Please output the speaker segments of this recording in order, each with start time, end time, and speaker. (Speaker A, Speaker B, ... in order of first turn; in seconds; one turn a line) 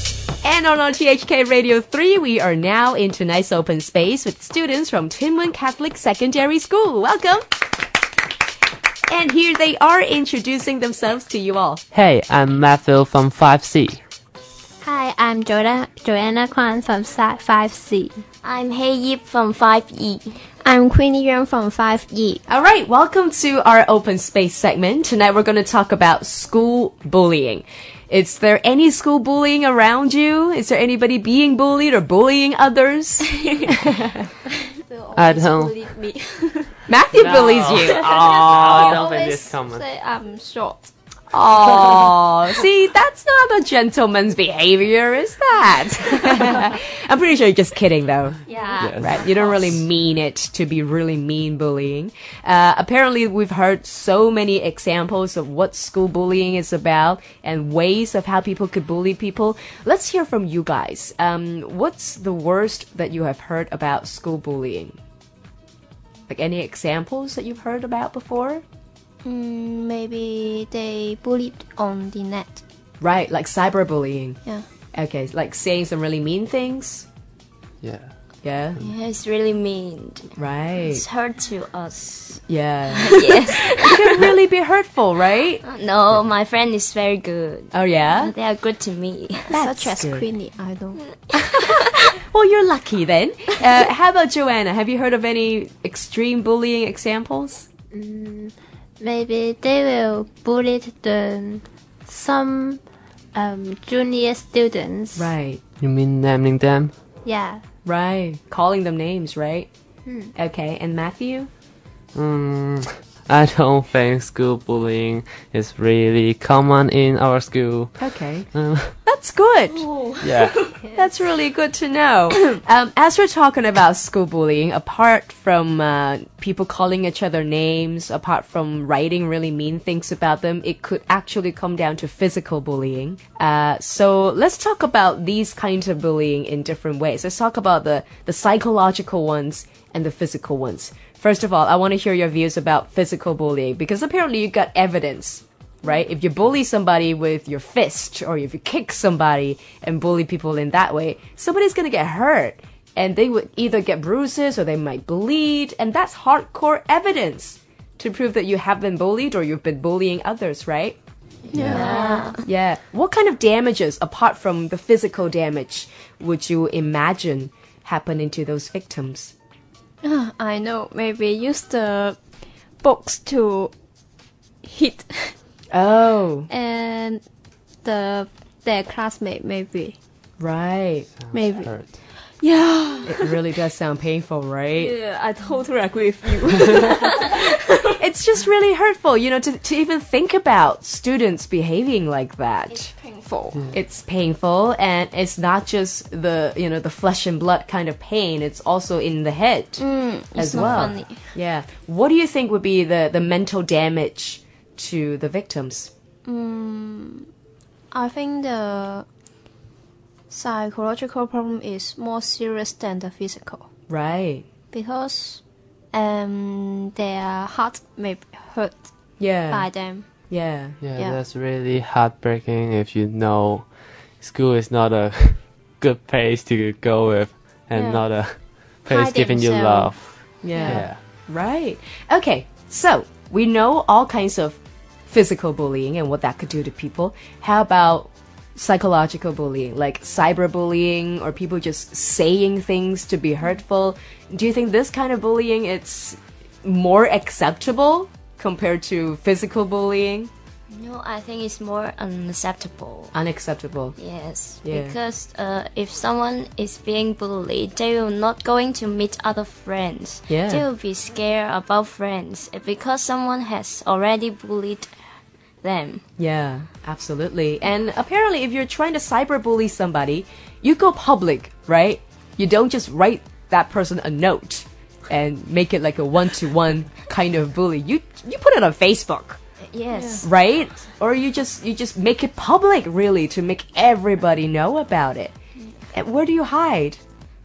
Speaker A: 0.4-7.4
Speaker A: 9.1-11.8
Speaker B: 11.9-14.0
Speaker C: 14.8-18.2
Speaker D: 18.4-20.4
Speaker E: 20.6-22.4
Speaker A: 22.5-34.1
Speaker E: 33.3-33.7
Speaker E: 34.7-36.8
Speaker B: 35.1-35.8
Speaker A: 36.9-38.8
Speaker B: 37.1-39.9
Speaker E: 37.9-40.9
Speaker A: 41.3-48.4
Speaker E: 48.5-49.6
Speaker B: 48.7-49.8
Speaker A: 49.0-65.0
Speaker A: 66.3-68.6
Speaker E: 69.2-72.6
Speaker A: 73.0-74.4
Speaker A: 74.9-77.1
Speaker B: 77.8-78.1
Speaker A: 78.4-78.8
Speaker D: 78.8-84.0
Speaker A: 80.4-81.0
Speaker A: 82.5-83.2
Speaker A: 83.8-85.6
Speaker D: 85.6-89.6
Speaker A: 87.7-88.3
Speaker E: 89.4-91.4
Speaker A: 89.6-90.3
Speaker A: 92.1-97.7
Speaker C: 97.9-102.8
Speaker C: 103.3-105.3
Speaker A: 105.2-105.6
Speaker B: 105.8-106.9
Speaker C: 107.2-107.6
Speaker A: 107.8-109.7
Speaker C: 110.0-110.3
Speaker A: 110.3-111.5
Speaker B: 112.1-118.9
Speaker A: 118.0-118.5
Speaker A: 119.0-119.9
Speaker E: 119.7-120.9
Speaker B: 120.2-120.7
Speaker A: 120.9-161.0
Speaker E: 161.5-162.3
Speaker D: 161.5-162.4
Speaker A: 161.6-169.3
Speaker E: 170.0-172.2
Speaker E: 172.8-173.7
Speaker E: 174.6-175.3
Speaker A: 175.7-176.5
Speaker E: 176.5-177.2
Speaker E: 177.8-179.9
Speaker A: 180.4-181.1
Speaker B: 181.2-181.9
Speaker E: 181.3-183.6
Speaker A: 183.1-184.9
Speaker E: 184.8-188.0
Speaker A: 188.0-192.9
Speaker E: 192.7-193.6
Speaker A: 193.7-205.9
Speaker E: 199.8-201.3
Speaker B: 200.5-201.0
Speaker E: 206.2-207.3
Speaker E: 207.9-209.1
Speaker E: 210.3-213.7
Speaker A: 213.9-214.4
Speaker E: 214.7-215.4
Speaker E: 215.9-220.1
Speaker A: 219.2-220.8
Speaker B: 220.8-231.0
Speaker E: 220.9-221.2
Speaker E: 227.7-228.1
Speaker E: 228.8-230.8
Speaker A: 230.4-250.3
Speaker D: 250.7-253.1
Speaker A: 253.1-254.0
Speaker D: 254.0-264.9
Speaker A: 254.6-255.0
Speaker A: 260.3-260.6
Speaker D: 265.6-266.0
Speaker A: 266.2-279.4
Speaker D: 279.7-280.2
Speaker E: 279.9-280.2
Speaker A: 280.2-285.3
Speaker A: 285.9-287.0